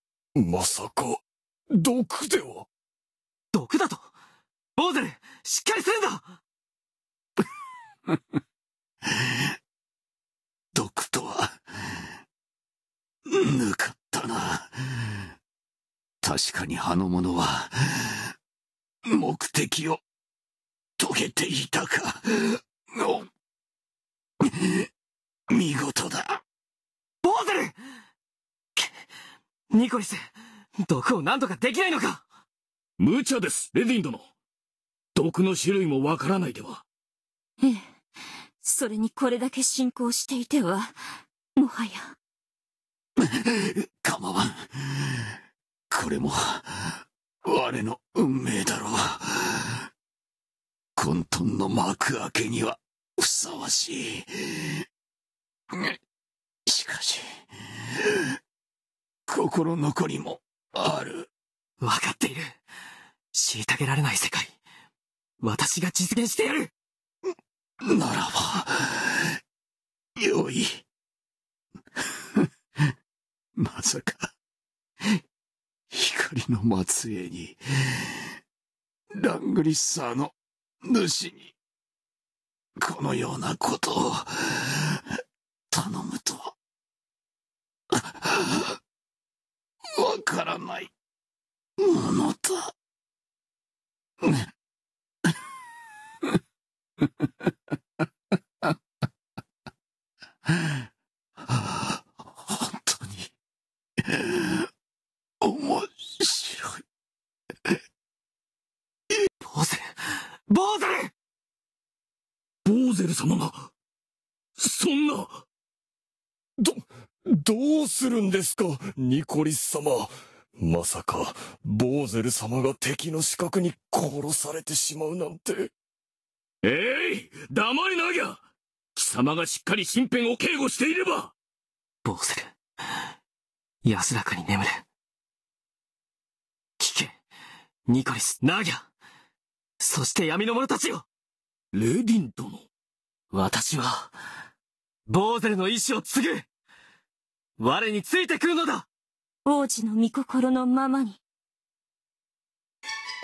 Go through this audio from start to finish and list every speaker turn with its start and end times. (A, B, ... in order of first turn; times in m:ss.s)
0:00.3-0:02.7 A
0:03.5-0:04.1 B
0:04.8-0:06.3 B
0:09.2-0:09.4 C
0:10.7-0:12.0 C
0:13.3-0:15.2 C
0:16.2-0:18.3 C
0:19.0-0:20.0 C
0:21.0-0:23.3 C
0:24.4-0:24.9 C
0:25.5-0:26.4 C
0:27.2-0:27.7 B
0:29.7-0:30.2 B
0:30.8-0:32.2 B
0:33.0-0:34.2 D
0:35.1-0:36.8 D
0:37.6-0:38.0 E
0:38.6-0:41.0 E
0:41.6-0:42.2 E
0:43.2-0:45.3 C
0:45.9-0:49.9 C
0:51.0-0:54.8 C
0:55.7-0:56.0 C
0:56.7-0:58.3 C
0:59.3-1:01.3 C
1:01.8-1:02.6 B
1:03.3-1:04.6 B
1:05.4-1:06.7 B
1:07.8-1:09.3 C
1:10.2-1:10.8 C
1:13.6-1:14.3 C
1:15.9-1:18.2 C
1:19.1-1:21.5 C
1:22.8-1:25.0 C
1:25.7-1:26.5 C
1:27.9-1:28.7 C
1:29.9-1:30.9 C
1:31.8-1:32.7 C
1:40.5-1:40.8 C
1:41.5-1:43.3 C
1:44.0-1:44.6 C
1:45.4-1:46.8 C
1:49.4-1:51.1 B
1:52.6-1:53.7 D
1:54.6-1:55.4 D
1:56.6-2:05.7 A
2:06.6-2:08.4 D
2:08.9-2:11.3 D
2:12.0-2:12.5 B
2:13.8-2:14.8 B
2:16.8-2:17.2 B
2:17.9-2:18.9 B
2:19.8-2:21.0 B
2:21.7-2:22.6 D
2:23.3-2:24.1 B
2:25.1-2:26.5 B
2:27.6-2:28.8 B
2:29.4-2:31.2 E